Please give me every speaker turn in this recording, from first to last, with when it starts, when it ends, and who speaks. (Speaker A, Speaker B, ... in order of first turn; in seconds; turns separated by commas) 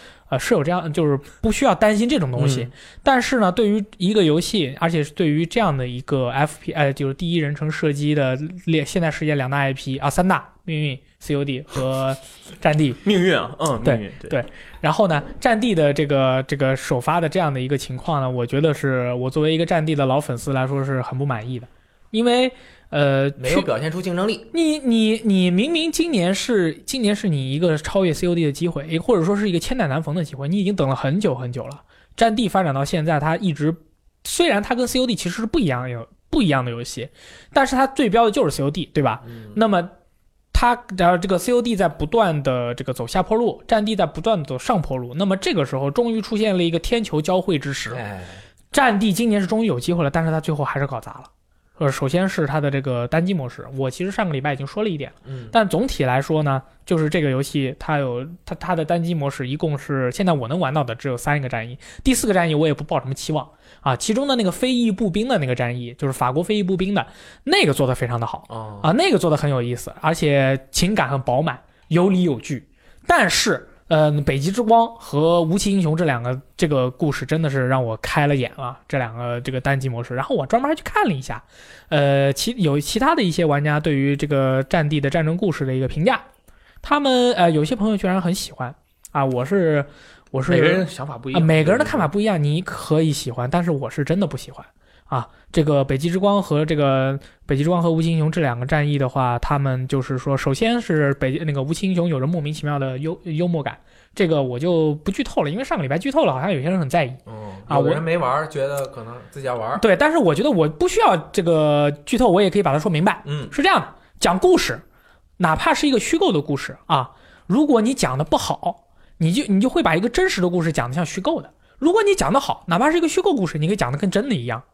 Speaker A: 0.3-13.0, Speaker B: 2.4-2.7, Speaker C: 13.0-14.3, Speaker A: 13.8-23.7, Speaker B: 23.4-24.5, Speaker A: 24.5-39.9, Speaker B: 39.2-39.6, Speaker A: 40.5-48.0, Speaker B: 47.9-48.4, Speaker A: 48.7-86.2, Speaker B: 55.2-55.5, Speaker B: 68.5-68.9, Speaker A: 86.8-108.0, Speaker C: 90.5-92.1, Speaker B: 107.2-109.8, Speaker A: 109.8-114.8, Speaker B: 113.2-113.5, Speaker A: 115.4-124.6